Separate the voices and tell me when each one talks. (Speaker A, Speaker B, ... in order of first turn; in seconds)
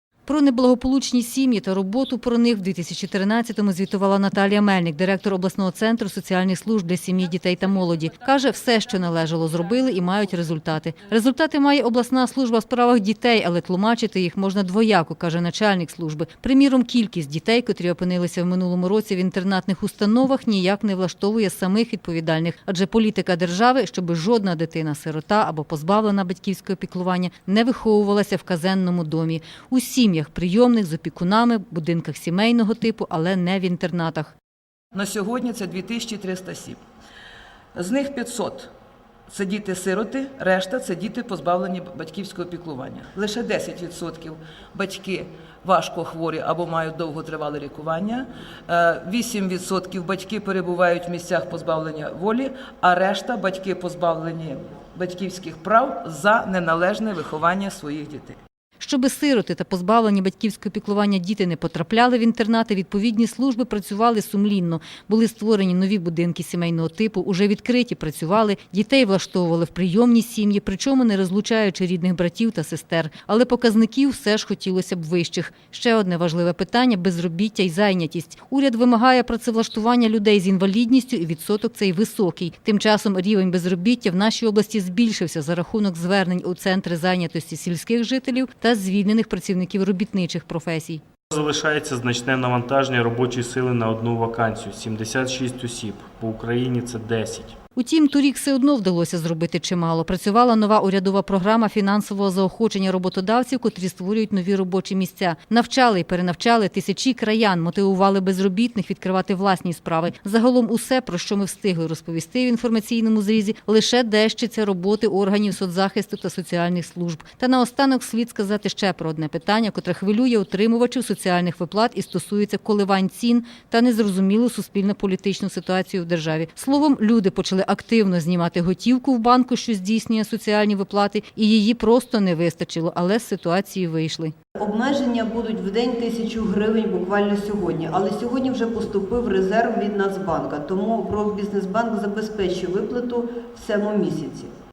Speaker A: 0.2-34.3, 58.8-91.0, 97.8-134.3
Speaker B: 34.9-36.8, 37.7-38.7, 39.3-58.4
Speaker C: 91.3-97.5
Speaker D: 134.6-144.5